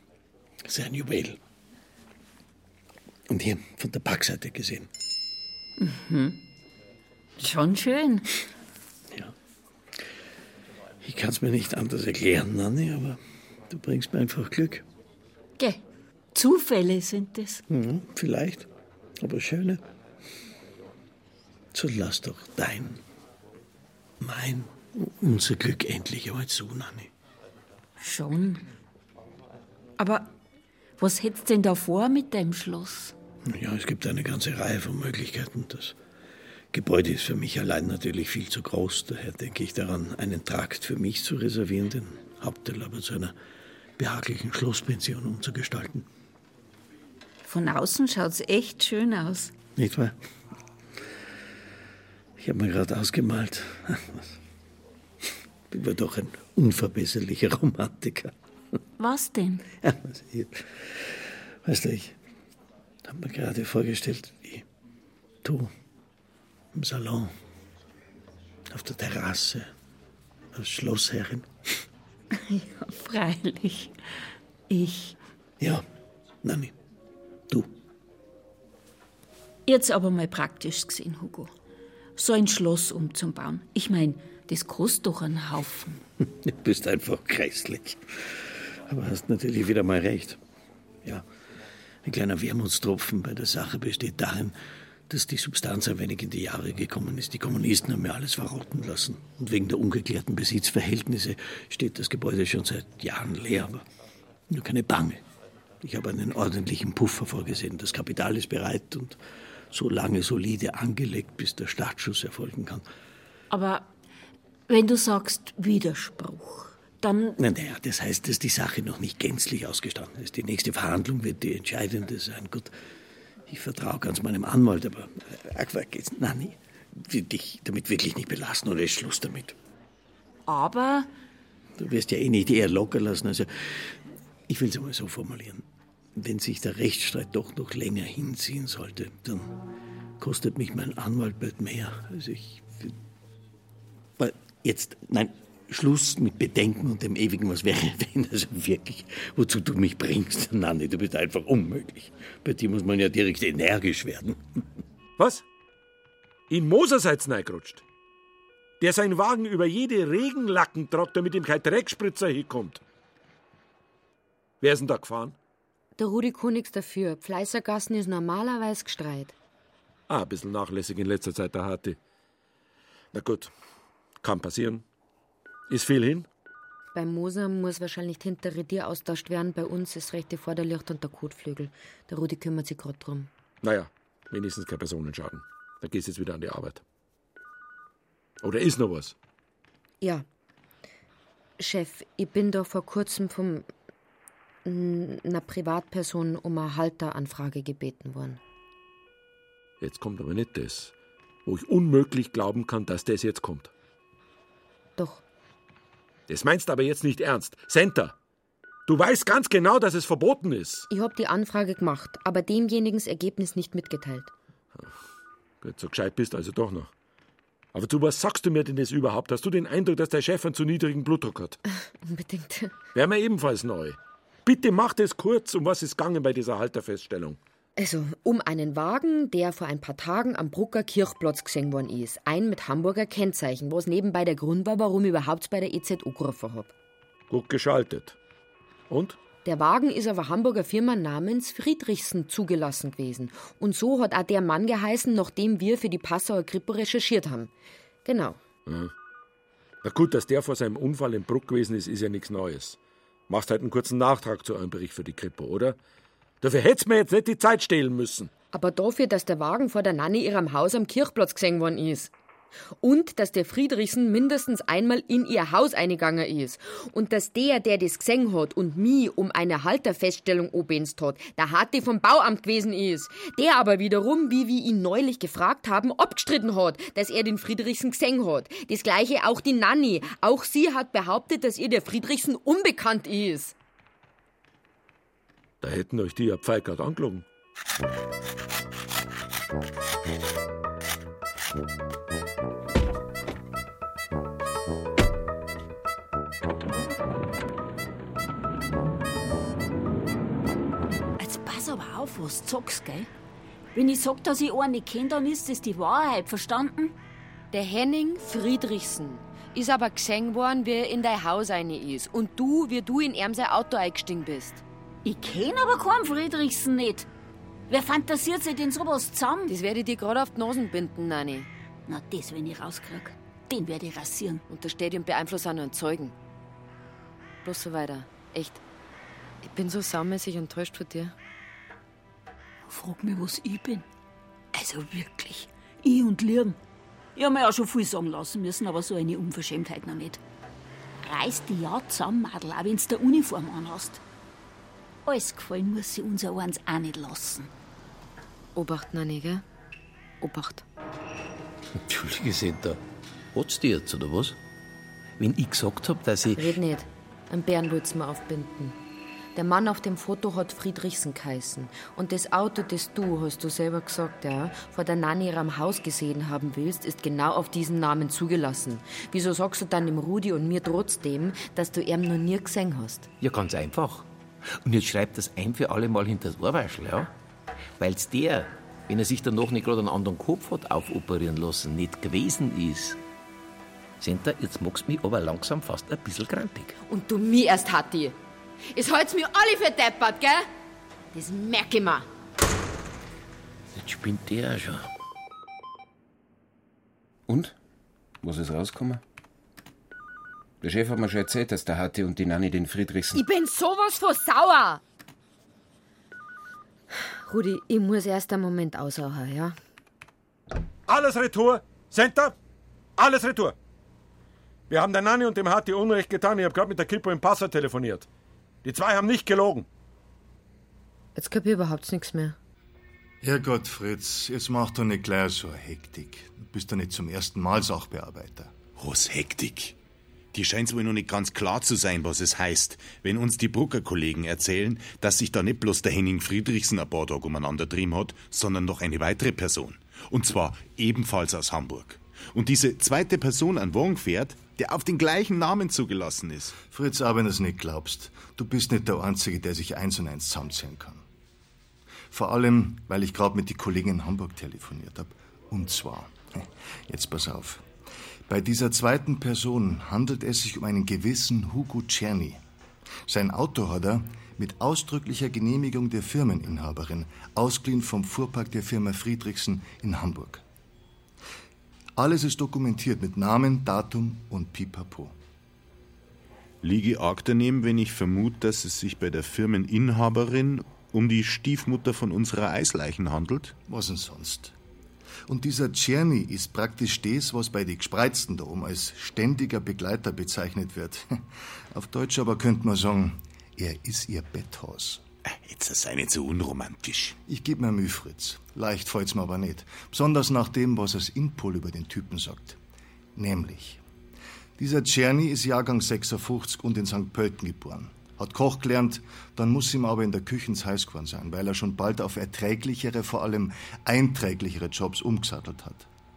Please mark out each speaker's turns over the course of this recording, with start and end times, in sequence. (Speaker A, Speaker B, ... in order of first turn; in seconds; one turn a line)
Speaker A: 0.6-1.4
Speaker A: 3.3-4.9
Speaker B: 5.8-6.4
Speaker B: 7.4-8.3
Speaker A: 11.0-14.8
Speaker B: 16.3-17.6
Speaker A: 17.7-18.7
Speaker A: 19.2-19.8
Speaker A: 21.7-23.0
Speaker A: 24.2-27.1
Speaker B: 28.0-28.6
Speaker B: 30.0-30.3
Speaker B: 31.0-33.1
Speaker A: 33.4-36.0
Speaker A: 36.7-43.3
Speaker A: 44.0-46.0
Speaker B: 47.4-49.5
Speaker A: 49.8-50.2
Speaker A: 52.4-54.4
Speaker A: 55.7-58.3
Speaker B: 59.0-59.6
Speaker A: 59.8-62.1
Speaker A: 63.0-64.6
Speaker A: 65.4-65.7
Speaker A: 66.7-67.3
Speaker A: 68.7-69.7
Speaker A: 70.5-71.8
Speaker B: 72.3-74.0
Speaker B: 74.7-75.2
Speaker A: 76.4-76.7
Speaker B: 79.7-81.5
Speaker B: 82.2-86.0
Speaker A: 86.4-90.4
Speaker A: 92.0-94.5
Speaker A: 95.1-103.8
Speaker A: 104.5-105.2
Speaker A: 105.8-109.2
Speaker A: 109.7-112.8
Speaker B: 113.5-113.9
Speaker B: 114.7-117.4
Speaker A: 117.4-122.7
Speaker A: 123.5-129.5
Speaker B: 130.5-131.1
Speaker A: 131.8-135.6
Speaker A: 136.2-139.6
Speaker A: 140.2-142.9
Speaker A: 144.2-154.4
Speaker C: 155.2-155.4
Speaker C: 156.5-157.8
Speaker C: 158.8-162.8
Speaker C: 164.6-165.3
Speaker D: 166.0-169.3
Speaker C: 170.1-172.0
Speaker C: 173.1-173.5
Speaker C: 174.2-174.8
Speaker C: 175.7-176.3
Speaker D: 176.9-183.3
Speaker C: 183.6-186.8
Speaker C: 188.4-189.1
Speaker D: 191.6-193.7
Speaker D: 194.6-198.4
Speaker C: 199.8-200.9
Speaker C: 201.4-203.7
Speaker D: 205.0-205.2
Speaker C: 206.3-208.1
Speaker C: 208.9-210.8
Speaker D: 210.9-214.3
Speaker C: 215.6-216.9
Speaker C: 217.7-221.6
Speaker D: 222.0-222.8
Speaker C: 222.9-227.4
Speaker D: 227.8-236.7
Speaker C: 237.3-238.2
Speaker C: 238.9-239.2
Speaker D: 239.4-247.5
Speaker D: 248.0-248.4
Speaker C: 248.7-248.9
Speaker C: 249.8-252.8
Speaker C: 253.3-255.8
Speaker C: 256.4-258.3
Speaker D: 258.5-262.1
Speaker D: 262.8-283.5
Speaker C: 285.6-287.2
Speaker B: 301.2-303.1
Speaker B: 303.7-306.9
Speaker D: 307.5-314.6
Speaker B: 315.0-317.1
Speaker B: 317.7-319.5
Speaker D: 319.5-321.5
Speaker B: 321.9-324.4
Speaker D: 324.5-326.1
Speaker D: 327.4-328.6
Speaker D: 329.4-331.1
Speaker B: 332.7-333.8
Speaker B: 334.5-336.6
Speaker B: 337.1-340.2
Speaker B: 341.0-344.0
Speaker B: 345.1-347.5
Speaker D: 348.5-349.4
Speaker D: 350.2-350.6
Speaker E: 351.8-352.8
Speaker E: 353.3-354.4
Speaker E: 355.2-356.6
Speaker D: 356.4-358.7
Speaker D: 359.3-373.1
Speaker E: 373.2-377.1
Speaker E: 377.8-383.0
Speaker E: 384.0-386.7
Speaker D: 386.9-388.1
Speaker D: 388.7-390.5
Speaker D: 391.1-392.1
Speaker E: 393.7-394.9
Speaker F: 397.3-397.5
Speaker F: 398.2-399.0
Speaker F: 400.6-403.2
Speaker D: 403.1-404.8
Speaker D: 406.9-409.6
Speaker C: 410.9-412.3
Speaker C: 413.0-413.5
Speaker C: 414.7-418.1
Speaker C: 418.6-419.6
Speaker D: 421.1-422.4
Speaker G: 423.2-428.5
Speaker H: 428.8-429.8
Speaker H: 430.3-446.6
Speaker G: 446.6-451.0
Speaker G: 452.1-457.6
Speaker G: 458.3-462.4
Speaker G: 463.1-470.4
Speaker G: 472.0-475.1
Speaker H: 476.6-483.6
Speaker G: 483.6-484.6
Speaker G: 485.3-495.0
Speaker H: 495.2-497.2
Speaker G: 497.3-502.6
Speaker G: 503.1-503.8
Speaker G: 504.6-515.9